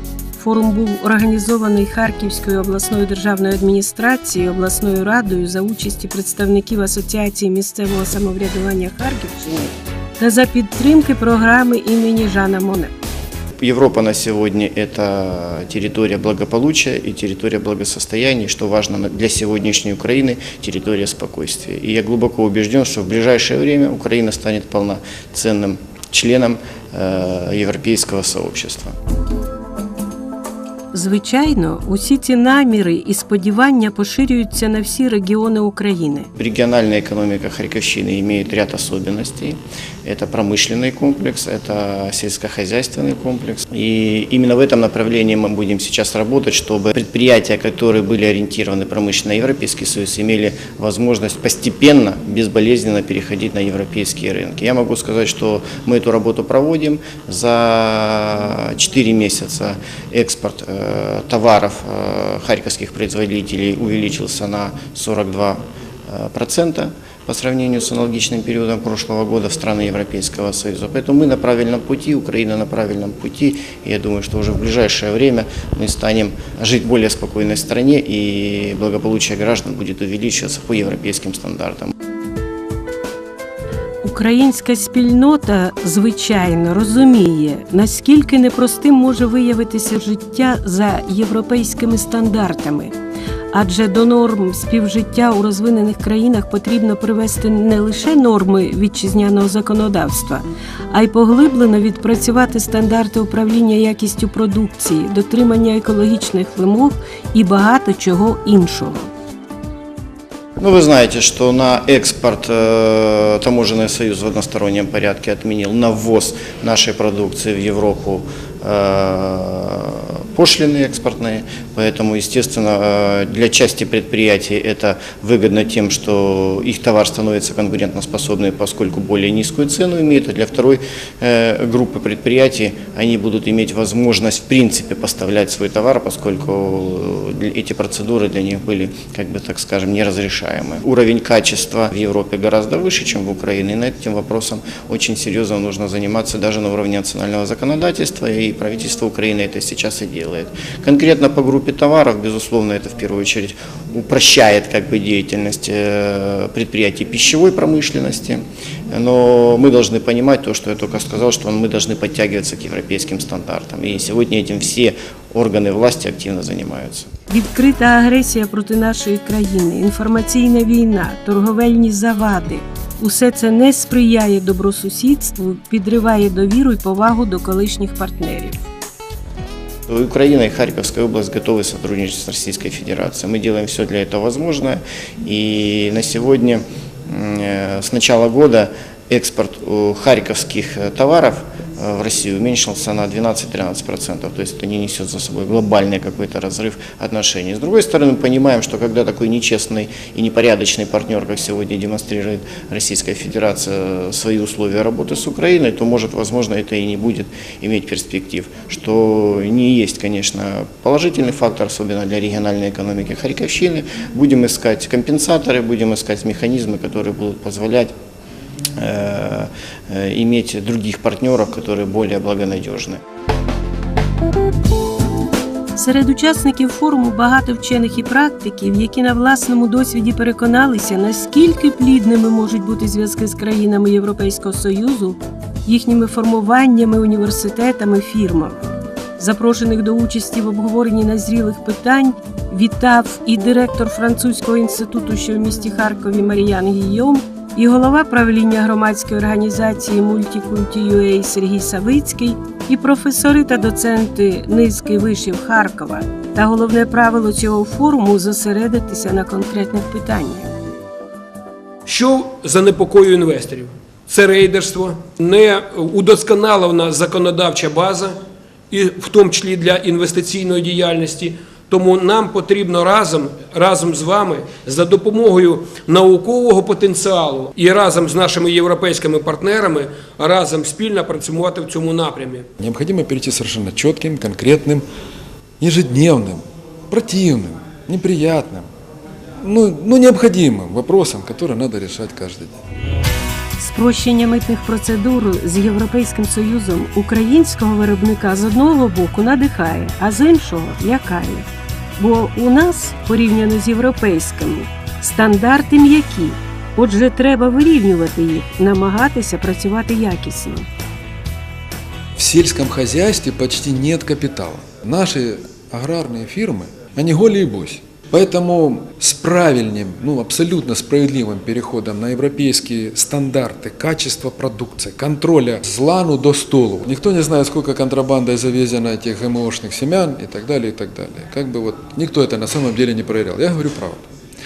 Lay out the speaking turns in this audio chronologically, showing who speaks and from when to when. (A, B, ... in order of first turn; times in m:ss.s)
0:00.3-0:12.9 A
0:13.6-0:28.9 B
0:30.9-0:36.3 A
0:36.4-1:21.9 B
1:24.0-1:32.9 A
1:33.5-1:49.1 A
1:50.6-2:47.1 B
2:47.3-2:58.6 A
2:59.9-3:37.9 B
3:38.8-3:43.0 B
3:45.8-4:20.5 A
4:21.9-4:28.2 C
4:28.7-4:42.5 C
4:42.6-4:44.8 D
4:45.6-4:48.7 D
4:49.4-4:52.6 D
4:53.6-5:01.4 A
5:02.0-5:10.7 A
5:12.2-5:34.1 D